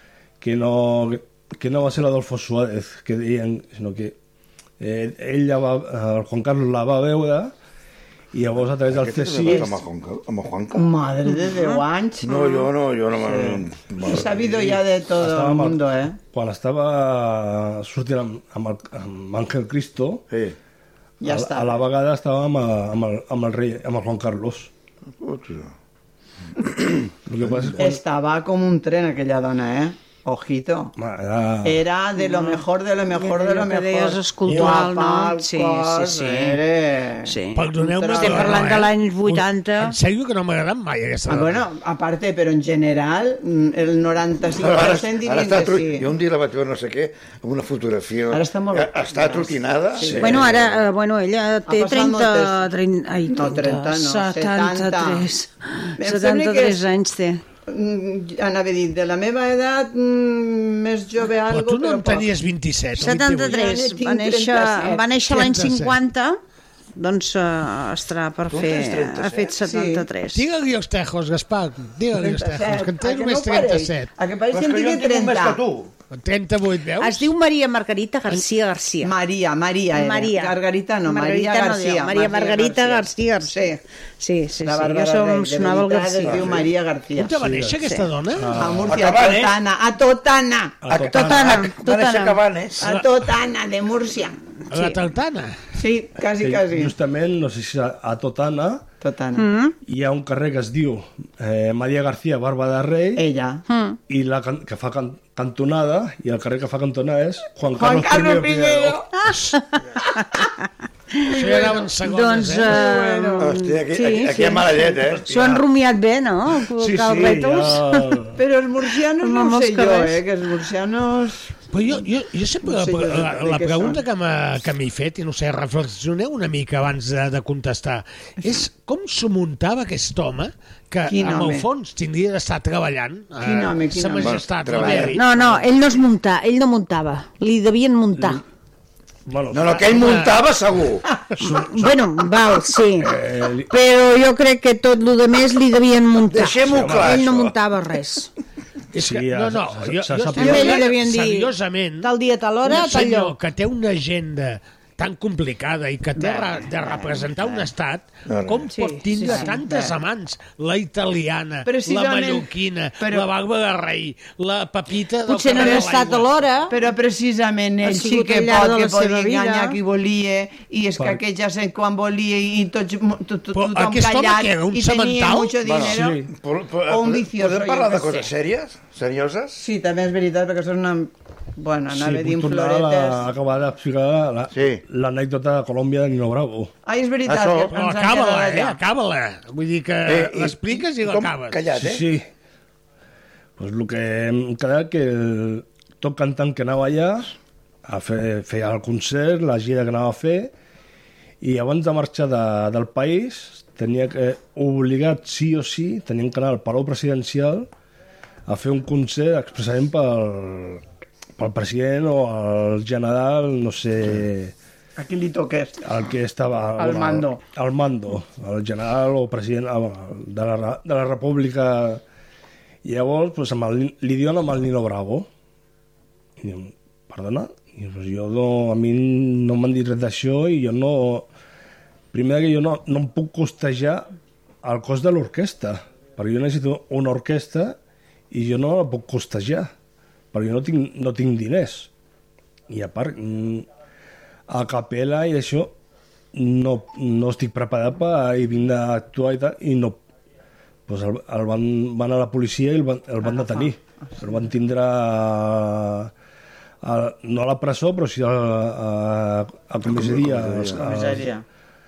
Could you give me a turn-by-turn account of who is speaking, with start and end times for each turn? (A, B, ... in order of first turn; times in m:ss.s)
0:00.4-0:04.2 A
0:04.8-0:07.5 A
0:08.3-0:09.8 A
0:08.8-0:10.9 B
0:10.7-0:16.2 C
0:11.3-0:11.8 D
0:12.2-0:14.8 B
0:15.2-0:20.2 A
0:20.3-0:20.6 B
0:21.2-0:21.8 C
0:21.2-0:24.7 A
0:25.2-0:25.7 B
0:26.6-0:27.8 B
0:27.3-0:28.0 A
0:27.8-0:31.0 C
0:31.0-0:31.8 A
0:31.6-0:38.9 C
0:32.2-0:32.6 D
0:33.1-0:36.6 D
0:34.5-0:34.8 A
0:37.2-0:40.0 D
0:37.6-0:41.6 E
0:41.3-0:46.1 C
0:44.6-0:50.8 B
0:48.3-0:50.5 C
0:50.2-0:57.4 D
0:51.7-0:52.7 C
0:53.3-0:55.3 C
0:56.0-0:56.9 C
0:57.7-1:02.3 C
1:01.5-1:03.6 E
1:03.0-1:06.4 D
1:03.1-1:05.1 C
1:05.3-1:06.0 E
1:07.0-1:10.4 D
1:08.5-1:09.5 B
1:09.6-1:10.1 C
1:10.3-1:14.1 E
1:12.1-1:15.6 C
1:14.5-1:15.9 B
1:16.1-1:17.3 E
1:17.0-1:19.1 D
1:19.0-1:23.8 C
1:19.9-1:23.7 D
1:24.2-1:26.5 D
1:24.6-1:27.4 C
1:26.3-1:26.7 B
1:27.2-1:28.6 E
1:27.4-1:27.8 A
1:27.8-1:28.1 D
1:28.4-1:29.0 A
1:28.5-1:30.8 C
1:28.8-1:29.6 B
1:30.8-1:31.7 A
1:30.9-1:32.9 B
1:30.9-1:32.4 D
1:32.8-1:34.4 C
1:34.7-1:35.0 D
1:34.7-1:35.6 E
1:35.7-1:36.9 C
1:36.4-1:38.9 A
1:39.0-1:39.4 C
1:39.4-1:39.8 D
1:39.9-1:43.2 A
1:43.2-1:43.6 C
1:43.7-1:44.0 D
1:44.1-1:49.0 A
1:47.7-1:49.1 C
1:50.2-1:50.5 D
1:51.2-1:58.2 D
1:51.3-1:52.8 E
1:51.3-1:51.9 C
1:52.6-1:53.5 C
1:53.4-1:55.6 B
1:56.8-1:58.4 A
1:58.4-2:01.6 C
1:59.2-2:00.2 D
2:01.7-2:15.4 E
2:02.6-2:04.0 C
2:11.1-2:11.7 C
2:13.4-2:15.1 C
2:14.2-2:15.2 B
2:15.1-2:18.4 D
2:18.2-2:18.4 A
2:19.3-2:20.2 A
2:19.5-2:21.1 B
2:19.8-2:20.3 E
2:21.4-2:22.1 A
2:21.4-2:23.2 D
2:23.0-2:23.7 A
2:23.7-2:28.3 D
2:26.3-2:27.3 B
2:26.6-2:27.6 A
2:28.9-2:32.1 E
2:29.0-2:30.8 A
2:30.4-2:33.4 D
2:32.6-2:46.3 E
2:36.2-2:37.7 C
2:38.3-2:38.7 B
2:38.7-2:39.5 D
2:38.8-2:40.0 C
2:41.6-2:43.3 C
2:45.3-2:46.8 D
2:45.5-2:45.9 C
2:46.7-2:56.2 C
2:47.8-2:49.8 D
2:53.5-2:55.6 E
2:55.6-2:59.6 B
2:55.8-2:56.3 A
2:56.9-2:58.3 C
2:59.6-3:03.3 C
3:01.9-3:06.7 A
3:04.5-3:04.8 B
3:06.8-3:08.8 C
3:07.3-3:07.8 B
3:07.7-3:11.6 E
3:10.1-3:12.1 B
3:11.7-3:12.3 A
3:13.6-3:20.5 A
3:21.4-3:27.7 A
3:28.5-3:30.8 A
3:31.4-3:34.5 A
3:35.0-3:35.8 C
3:35.8-3:42.0 A
3:36.8-3:37.4 C
3:42.8-3:45.3 A
3:46.4-3:51.3 A
3:52.1-3:54.1 A
3:54.6-3:57.8 A
3:58.3-3:59.7 A
4:00.3-4:01.9 A
4:02.7-4:03.7 A
4:04.5-4:05.7 A
4:06.3-4:10.0 A
4:10.9-4:16.1 A
4:13.2-4:13.7 C
4:16.8-4:21.3 A
4:19.8-4:21.0 B
4:20.7-4:21.4 C